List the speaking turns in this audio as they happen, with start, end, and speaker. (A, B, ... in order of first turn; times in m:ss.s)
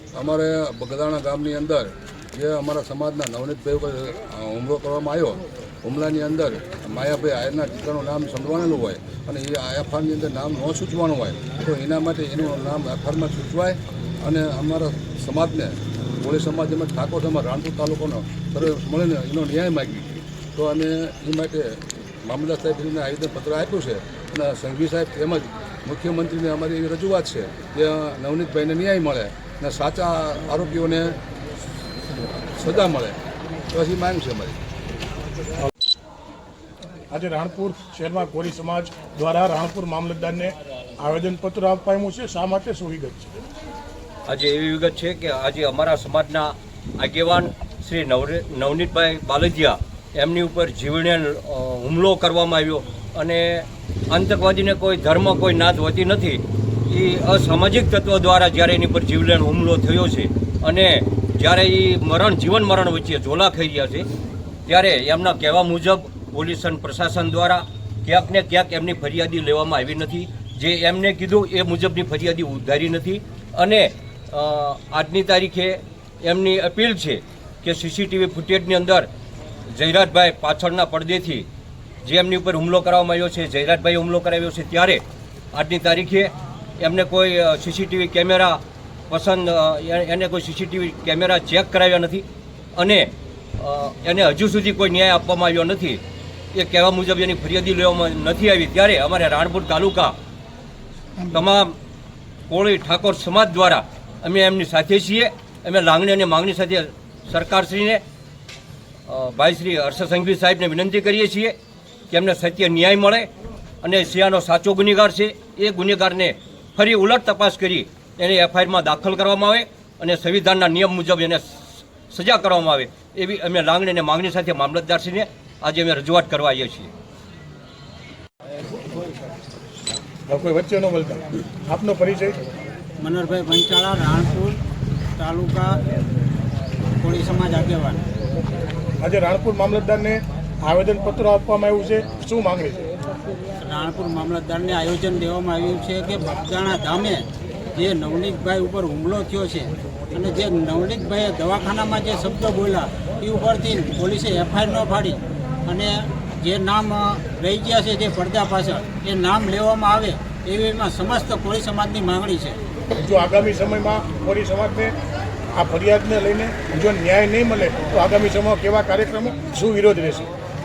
0:00.2-0:31.2 A
0:32.6-0:33.2 A
0:33.7-0:34.6 A
0:37.1-0:43.4 B
0:44.3-1:04.1 C
1:04.7-1:19.1 C
1:19.7-1:21.5 C
1:22.0-1:36.0 C
1:36.5-1:40.2 C
1:41.3-1:41.8 C
1:42.5-1:48.0 C
1:49.1-1:51.6 C
1:52.1-1:53.3 C
1:53.8-2:06.9 C
2:10.3-2:12.4 B
2:13.0-2:14.6 D
2:15.2-2:15.8 D
2:17.0-2:18.0 D
2:19.0-2:22.8 B
2:23.6-2:42.6 D
2:43.0-2:45.0 B
2:45.6-2:50.3 B